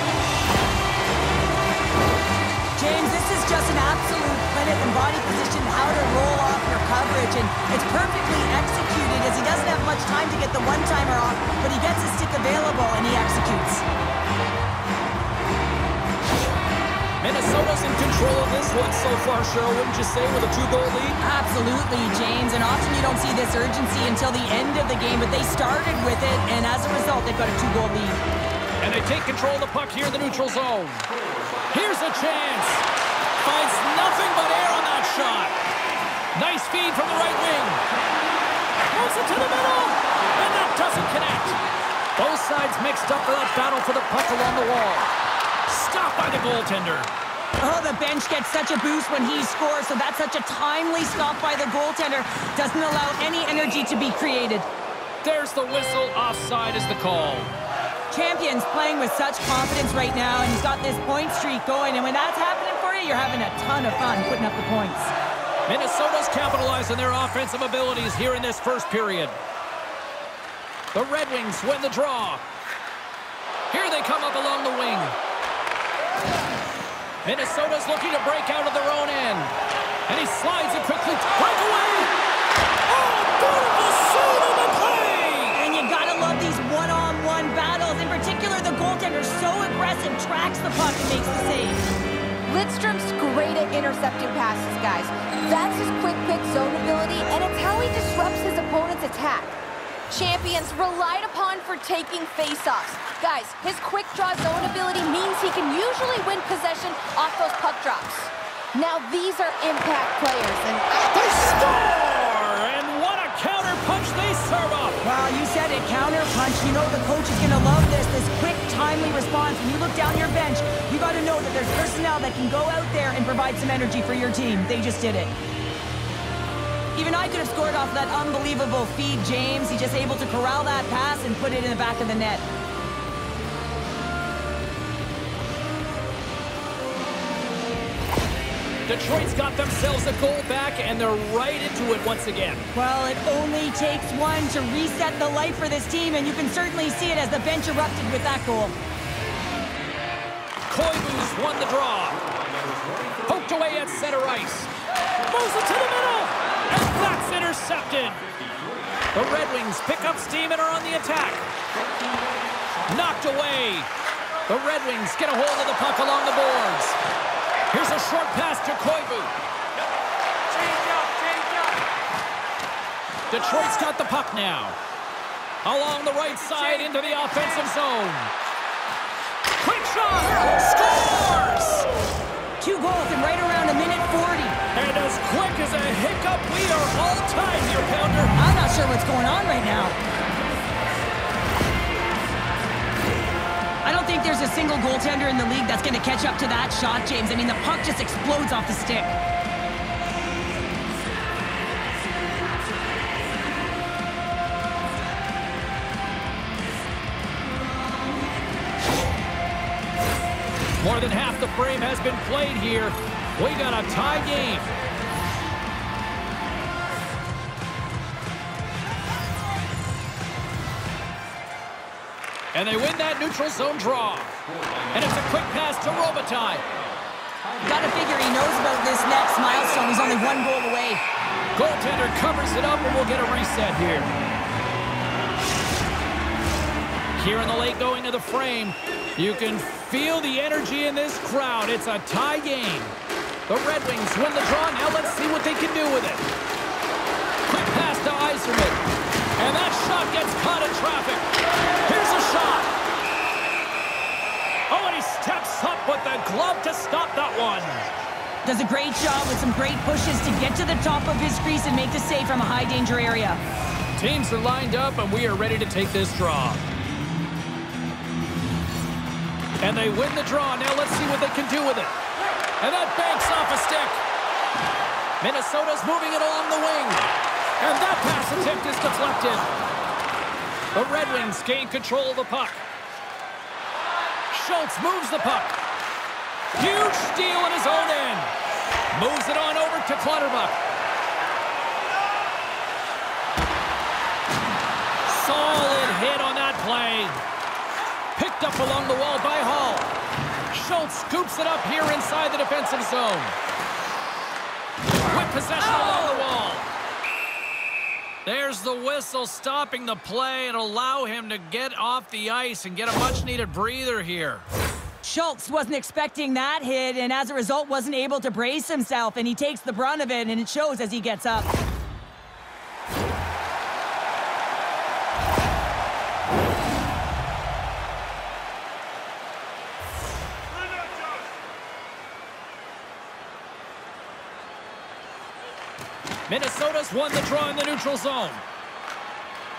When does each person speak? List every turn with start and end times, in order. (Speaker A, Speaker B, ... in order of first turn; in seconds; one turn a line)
Speaker A: 2.8-13.8
Speaker B: 17.2-21.2
Speaker A: 21.2-28.2
Speaker B: 28.8-31.1
Speaker B: 31.7-32.9
Speaker B: 33.4-35.5
Speaker B: 36.4-37.8
Speaker B: 38.9-41.6
Speaker B: 42.2-45.1
Speaker B: 45.7-47.1
Speaker A: 47.6-54.7
Speaker B: 55.2-57.5
Speaker A: 58.1-65.1
Speaker B: 65.7-69.4
Speaker B: 70.9-72.4
Speaker B: 73.7-75.2
Speaker B: 77.2-79.5
Speaker B: 80.1-82.1
Speaker B: 82.9-85.6
Speaker A: 85.5-91.8
Speaker C: 92.5-99.5
Speaker C: 100.1-111.1
Speaker B: 111.1-115.0
Speaker A: 115.0-125.3
Speaker A: 127.0-132.4
Speaker B: 138.9-142.7
Speaker A: 142.7-148.8
Speaker B: 150.7-152.4
Speaker B: 152.9-154.7
Speaker B: 155.2-158.3
Speaker B: 159.1-161.4
Speaker B: 162.9-163.9
Speaker B: 164.5-167.0
Speaker B: 167.7-169.3
Speaker B: 170.9-171.7
Speaker B: 173.3-174.8
Speaker B: 175.6-178.3
Speaker B: 179.6-181.9
Speaker A: 182.6-184.6
Speaker B: 184.7-188.3
Speaker A: 188.4-190.0
Speaker A: 193.8-199.2
Speaker B: 210.8-214.7
Speaker B: 222.5-224.3
Speaker B: 224.9-226.7
Speaker A: 227.6-231.0
Speaker B: 231.6-234.1
Speaker B: 237.2-242.9
Speaker B: 243.5-246.2
Speaker B: 247.5-248.8
Speaker B: 249.4-251.2
Speaker B: 251.8-252.7
Speaker B: 254.7-257.9
Speaker A: 258.4-263.4
Speaker B: 264.0-266.6
Speaker B: 269.6-271.9
Speaker B: 272.6-274.0
Speaker B: 275.2-277.1
Speaker B: 277.6-279.5
Speaker B: 280.7-282.6
Speaker B: 284.3-285.6
Speaker B: 286.6-288.3
Speaker B: 288.9-290.6
Speaker B: 295.1-297.2
Speaker B: 298.2-299.9
Speaker B: 300.5-303.4
Speaker B: 305.0-306.7
Speaker B: 308.2-314.4
Speaker A: 315.0-321.5
Speaker B: 336.3-338.4